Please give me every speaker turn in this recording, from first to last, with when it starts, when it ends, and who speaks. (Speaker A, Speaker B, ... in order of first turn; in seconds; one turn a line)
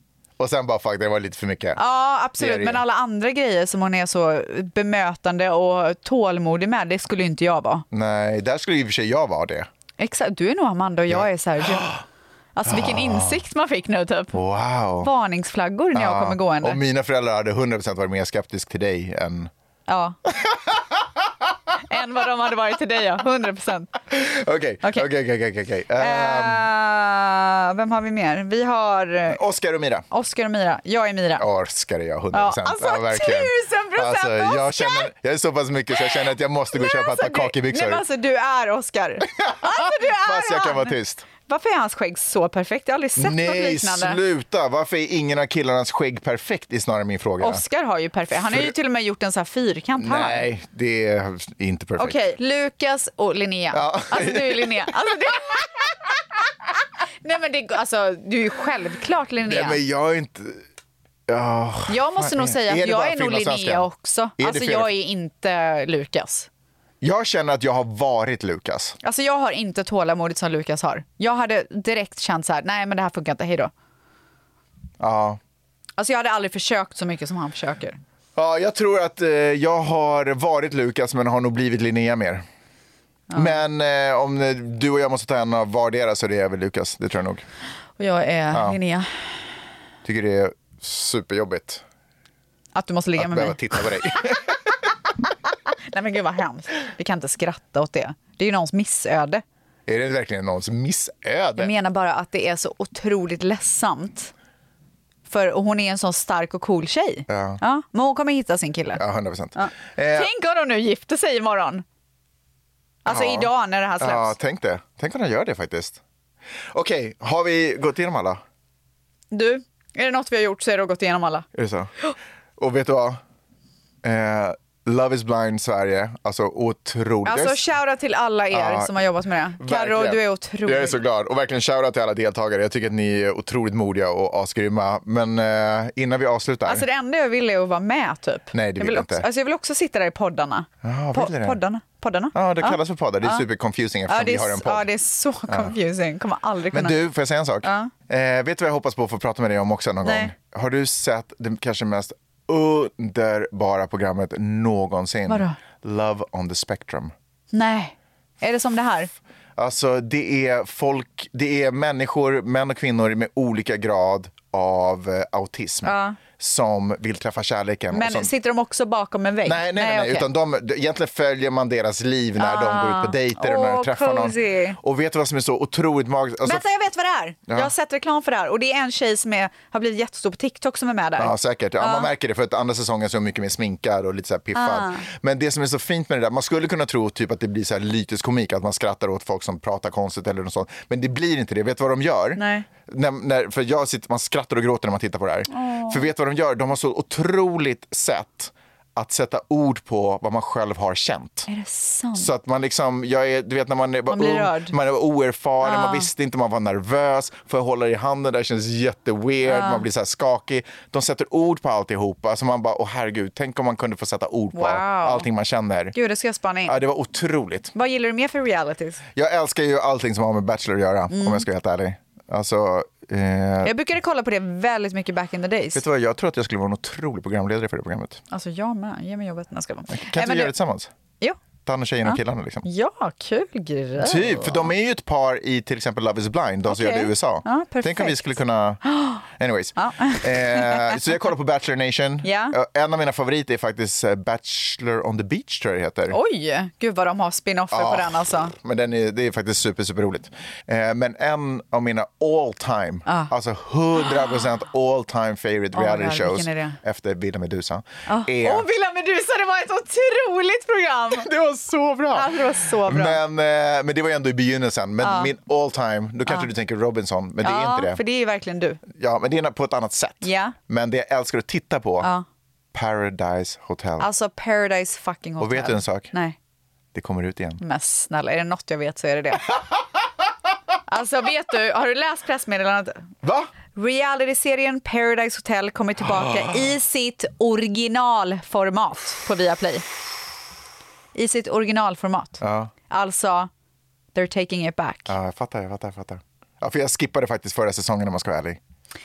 Speaker A: 0.4-1.8
Speaker B: 1.8-7.9
Speaker A: 2.4-2.8
Speaker A: 7.9-9.7
Speaker B: 10.0-11.9
Speaker A: 11.1-12.0
Speaker B: 12.6-14.4
Speaker A: 12.7-13.4
Speaker A: 14.3-15.1
Speaker B: 15.0-16.8
Speaker A: 15.9-19.5
Speaker B: 19.9-20.2
Speaker A: 20.3-20.8
Speaker B: 21.9-23.9
Speaker A: 24.1-26.6
Speaker B: 24.8-25.1
Speaker B: 26.0-29.4
Speaker A: 29.3-30.1
Speaker B: 30.1-31.4
Speaker A: 31.4-38.0
Speaker B: 32.3-35.1
Speaker B: 36.0-41.0
Speaker A: 39.4-41.3
Speaker B: 41.5-44.2
Speaker A: 43.2-47.6
Speaker B: 47.4-50.4
Speaker A: 48.5-48.7
Speaker A: 50.0-52.2
Speaker B: 52.0-55.9
Speaker A: 53.7-54.9
Speaker B: 57.2-59.8
Speaker A: 59.4-60.6
Speaker A: 61.3-64.9
Speaker B: 61.9-66.5
Speaker A: 67.0-69.0
Speaker B: 69.0-73.7
Speaker A: 75.0-75.4
Speaker B: 76.0-78.0
Speaker A: 78.4-82.5
Speaker B: 83.3-83.6
Speaker A: 83.3-87.5
Speaker B: 88.0-89.3
Speaker A: 88.5-88.8
Speaker A: 90.0-91.8
Speaker B: 92.7-93.6
Speaker A: 93.2-94.6
Speaker B: 95.9-99.4
Speaker A: 99.9-101.7
Speaker B: 101.6-104.3
Speaker B: 105.3-109.0
Speaker A: 107.3-107.6
Speaker A: 109.0-110.3
Speaker B: 109.5-111.8
Speaker B: 113.0-114.3
Speaker A: 113.0-116.0
Speaker A: 116.7-118.4
Speaker B: 119.3-121.5
Speaker A: 121.5-121.9
Speaker A: 122.6-123.2
Speaker A: 124.0-127.6
Speaker B: 127.2-131.0
Speaker A: 128.5-129.1
Speaker A: 129.6-136.8
Speaker B: 136.6-143.4
Speaker A: 138.5-139.3
Speaker A: 140.8-141.6
Speaker A: 142.3-144.9
Speaker B: 144.1-147.0
Speaker A: 145.5-145.7
Speaker A: 146.7-157.1
Speaker B: 147.6-147.9
Speaker B: 150.0-150.3
Speaker B: 155.3-155.6
Speaker B: 157.5-159.1
Speaker A: 159.6-168.3
Speaker B: 165.8-166.2
Speaker B: 167.9-170.3
Speaker A: 169.4-176.6
Speaker B: 172.4-174.8
Speaker B: 176.4-182.1
Speaker A: 181.2-201.5
Speaker B: 184.5-185.0
Speaker B: 192.4-192.7
Speaker B: 195.5-196.0
Speaker B: 201.5-202.3
Speaker A: 202.2-215.9
Speaker B: 204.1-204.7
Speaker B: 205.6-206.1
Speaker B: 209.5-209.8
Speaker B: 214.5-215.3
Speaker B: 215.9-216.8
Speaker A: 216.7-217.7
Speaker B: 217.7-219.0
Speaker A: 219.2-223.7
Speaker B: 221.1-221.4
Speaker B: 223.6-225.8
Speaker A: 225.7-228.2
Speaker B: 228.3-230.5
Speaker A: 229.9-230.9
Speaker A: 231.6-232.6
Speaker B: 232.0-234.7
Speaker A: 234.0-246.2
Speaker B: 236.7-238.3
Speaker B: 238.8-239.2
Speaker B: 239.8-241.0
Speaker B: 242.2-242.6
Speaker B: 246.1-248.5
Speaker A: 247.7-258.7
Speaker B: 253.1-253.3
Speaker B: 255.7-256.8
Speaker B: 258.1-261.3
Speaker A: 261.1-268.0
Speaker B: 262.1-263.2
Speaker B: 265.0-265.3
Speaker B: 267.4-268.8
Speaker A: 268.9-272.1
Speaker B: 270.2-270.6
Speaker A: 272.7-274.1
Speaker B: 274.0-276.4
Speaker A: 275.4-276.1
Speaker A: 276.9-277.6
Speaker B: 277.6-279.5
Speaker B: 280.9-283.1
Speaker A: 283.2-283.5
Speaker B: 283.7-289.8
Speaker B: 291.1-293.5
Speaker A: 292.4-292.7
Speaker B: 294.1-295.1
Speaker A: 295.1-298.6